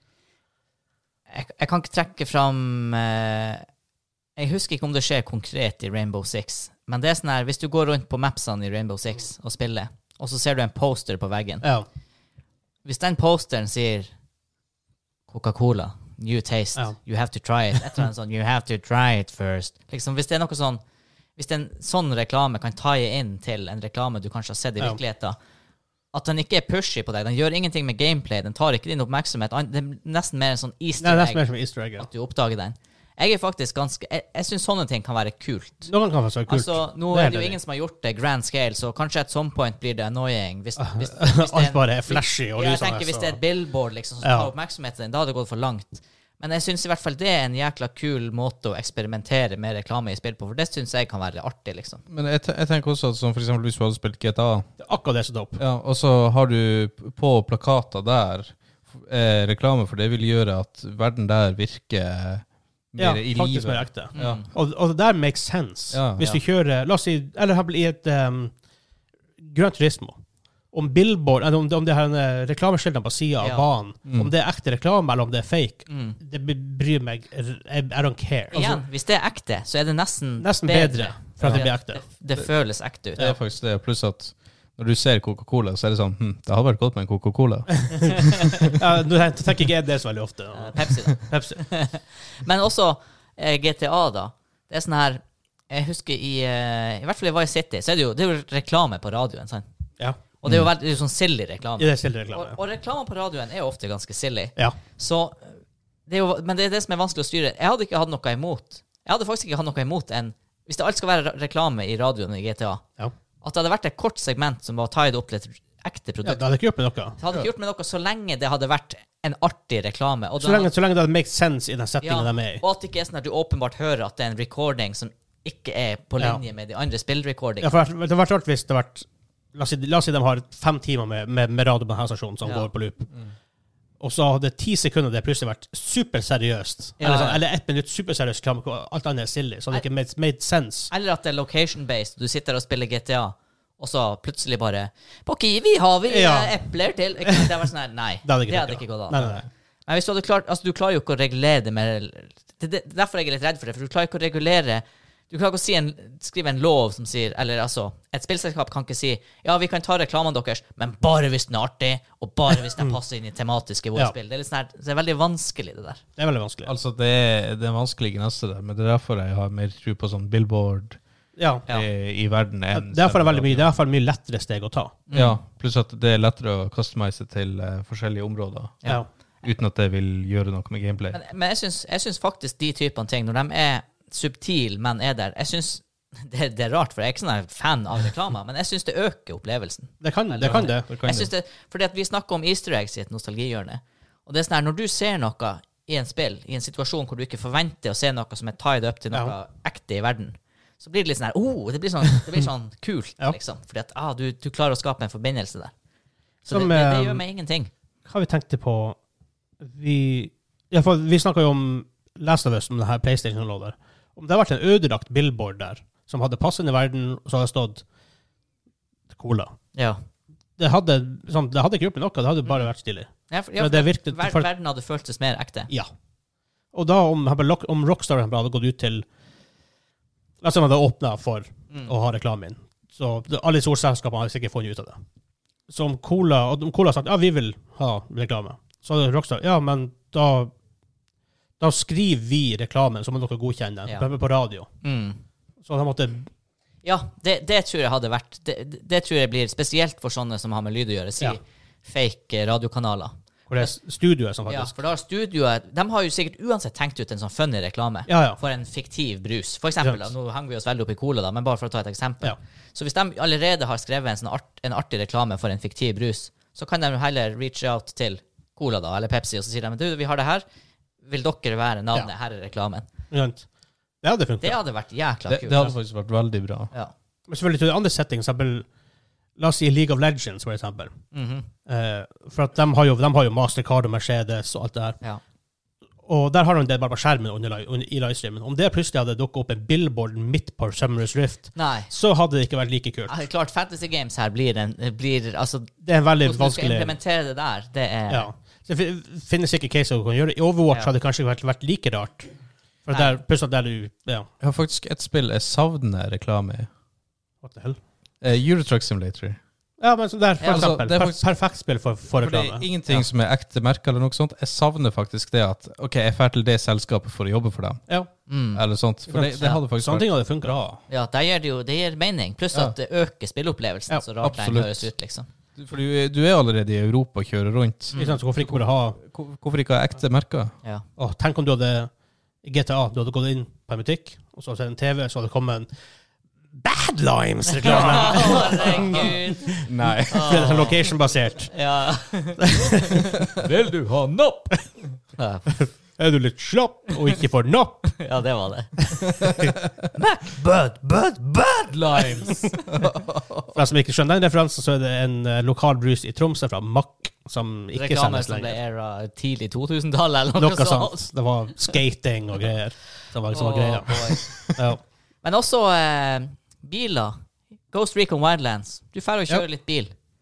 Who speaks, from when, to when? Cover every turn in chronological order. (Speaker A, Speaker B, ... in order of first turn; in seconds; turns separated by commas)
Speaker A: 1.3-3.7, Speaker A: 4.4-11.7, Speaker A: 12.8-14.1, Speaker A: 15.3-20.8, Speaker A: 21.4-25.4, Speaker A: 26.1-31.4, Speaker B: 31.0-32.1, Speaker A: 32.0-35.9, Speaker B: 35.9-37.6, Speaker A: 36.5-52.0, Speaker B: 40.8-43.4, Speaker B: 44.2-44.5, Speaker C: 52.1-54.7, Speaker B: 54.8-55.6, Speaker C: 55.6-64.4, Speaker B: 63.0-68.5, Speaker A: 64.2-64.5, Speaker C: 65.9-66.3, Speaker B: 69.4-70.2, Speaker B: 70.7-78.8, Speaker A: 73.4-73.7, Speaker C: 74.1-74.3, Speaker A: 75.9-76.2, Speaker A: 78.5-83.3, Speaker B: 80.4-82.0, Speaker C: 83.2-88.7, Speaker B: 87.8-91.6, Speaker A: 90.5-99.7, Speaker A: 100.4-105.5, Speaker B: 101.8-102.6, Speaker A: 106.1-112.8, Speaker A: 113.4-116.4, Speaker B: 116.2-117.2, Speaker A: 117.2-120.7, Speaker B: 120.4-122.6, Speaker A: 122.0-127.7, Speaker B: 127.6-133.1, Speaker A: 132.4-132.7, Speaker B: 134.0-140.9, Speaker A: 137.0-137.4, Speaker A: 140.9-166.0, Speaker B: 146.1-146.6, Speaker B: 147.3-147.6, Speaker B: 148.2-149.4, Speaker B: 166.2-166.7, Speaker C: 166.7-171.0, Speaker B: 171.4-171.7, Speaker C: 171.7-173.7, Speaker B: 172.7-175.0, Speaker A: 175.1-175.4, Speaker C: 175.1-181.2, Speaker A: 181.1-205.7, Speaker B: 190.0-190.9, Speaker C: 190.4-191.3, Speaker B: 206.5-207.2, Speaker A: 206.5-207.7, Speaker B: 208.1-209.0, Speaker B: 209.6-217.8, Speaker B: 219.1-219.5, Speaker B: 220.6-224.5, Speaker A: 223.3-225.7, Speaker B: 226.7-229.1, Speaker B: 230.4-235.0, Speaker B: 235.7-240.5, Speaker B: 241.6-244.7, Speaker A: 244.8-245.2, Speaker B: 245.7-246.3, Speaker A: 246.8-253.7, Speaker B: 253.5-254.7, Speaker A: 254.5-270.4, Speaker B: 258.1-258.4, Speaker B: 259.8-260.1, Speaker A: 271.1-272.9, Speaker B: 273.1-273.4, Speaker B: 274.0-274.6, Speaker A: 274.4-275.8, Speaker C: 275.3-276.7, Speaker B: 277.3-278.7, Speaker B: 279.4-280.9, Speaker A: 281.1-281.5, Speaker B: 281.7-285.0, Speaker B: 286.1-293.2, Speaker A: 291.6-291.9, Speaker A: 293.1-298.3, Speaker B: 295.8-297.0, Speaker B: 298.1-302.3, Speaker B: 302.9-304.3, Speaker A: 302.9-303.2, Speaker C: 304.4-306.7, Speaker B: 307.4-307.8, Speaker C: 308.2-309.4, Speaker B: 309.8-312.7, Speaker C: 310.4-311.2, Speaker C: 312.2-317.8, Speaker A: 318.3-318.6, Speaker C: 318.5-320.8, Speaker B: 319.1-320.6, Speaker A: 320.9-325.3, Speaker C: 324.2-324.9, Speaker C: 325.6-330.5, Speaker A: 327.9-328.2, Speaker B: 328.0-329.0, Speaker B: 331.0-331.9, Speaker B: 332.4-335.7, Speaker B: 336.6-341.5, Speaker A: 337.6-340.8, Speaker C: 339.7-340.7, Speaker A: 341.5-344.6, Speaker B: 342.4-343.1, Speaker A: 345.2-345.5, Speaker B: 345.6-347.9, Speaker A: 347.9-349.4, Speaker B: 349.0-349.5, Speaker A: 349.9-353.4, Speaker C: 352.7-353.1, Speaker B: 353.5-358.6, Speaker A: 357.8-361.0, Speaker B: 360.3-364.8, Speaker A: 363.3-364.3, Speaker C: 364.2-364.5, Speaker A: 365.2-367.2, Speaker A: 367.7-369.9